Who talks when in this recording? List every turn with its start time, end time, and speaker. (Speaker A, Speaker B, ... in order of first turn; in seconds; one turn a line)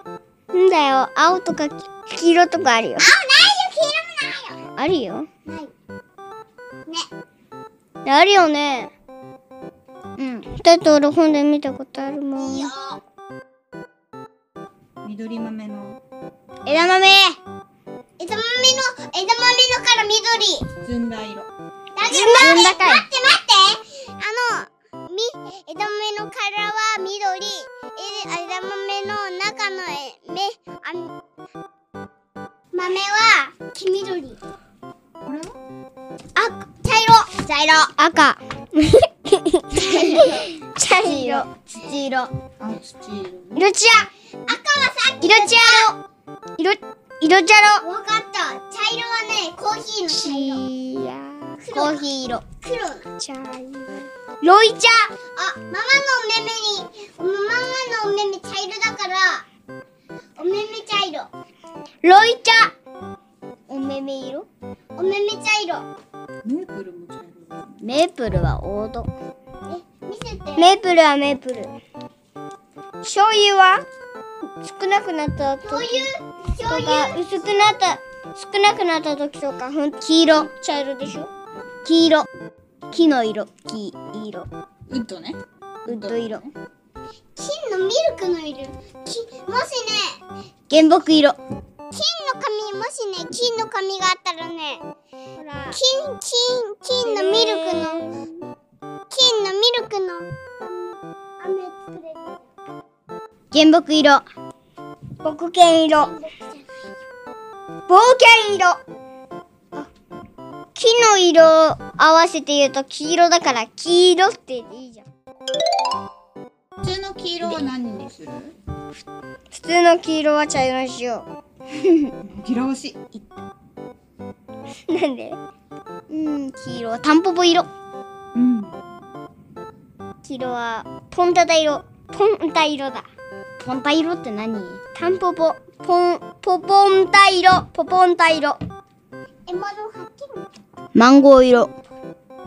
Speaker A: 0.5-3.1
Speaker B: 3.0-4.6
Speaker A: 4.8-5.3
Speaker B: 5.5-5.7
Speaker A: 8.0-8.9
Speaker A: 10.2-12.7
Speaker B: 12.3-13.0
Speaker C: 15.0-16.0
Speaker A: 16.6-17.4
Speaker B: 18.2-20.7
Speaker C: 20.8-21.5
Speaker B: 21.9-31.1
Speaker A: 22.1-23.0
Speaker B: 32.7-34.4
Speaker C: 35.2-35.6
Speaker B: 36.4-37.3
Speaker A: 37.3-42.3
Speaker B: 39.7-41.5
Speaker C: 42.6-43.7
Speaker A: 43.5-44.1
Speaker B: 44.5-45.9
Speaker A: 45.2-46.0
Speaker A: 46.6-47.8
Speaker B: 47.8-50.6
Speaker A: 50.1-52.4
Speaker B: 51.6-52.0
Speaker B: 52.6-53.1
Speaker A: 53.2-55.1
Speaker B: 55.3-59.5
Speaker B: 60.4-61.3
Speaker A: 62.0-62.7
Speaker A: 63.7-64.5
Speaker B: 65.0-65.9
Speaker C: 66.4-67.8
Speaker A: 67.8-69.1
Speaker B: 69.7-70.8
Speaker A: 70.5-71.7
Speaker A: 73.0-73.8
Speaker A: 74.6-76.1
Speaker B: 75.6-77.2
Speaker A: 76.7-81.3
Speaker A: 81.8-82.3
Speaker A: 82.9-84.5
Speaker C: 84.9-86.5
Speaker A: 85.8-86.4
Speaker B: 87.3-90.2
Speaker A: 90.7-91.4
Speaker B: 91.9-94.8
Speaker A: 95.4-95.8
Speaker B: 95.7-98.0
Speaker A: 97.0-98.3
Speaker B: 99.1-102.5
Speaker A: 103.5-104.2
Speaker A: 105.2-106.1
Speaker B: 105.9-106.7
Speaker A: 107.9-108.8
Speaker A: 110.7-115.0
Speaker C: 116.8-118.5
Speaker A: 119.5-122.1
Speaker C: 122.2-123.2
Speaker A: 124.9-125.4
Speaker A: 126.1-127.7
Speaker C: 128.3-128.8
Speaker A: 130.2-133.1
Speaker A: 133.6-138.6
Speaker B: 139.5-140.4
Speaker A: 140.9-141.7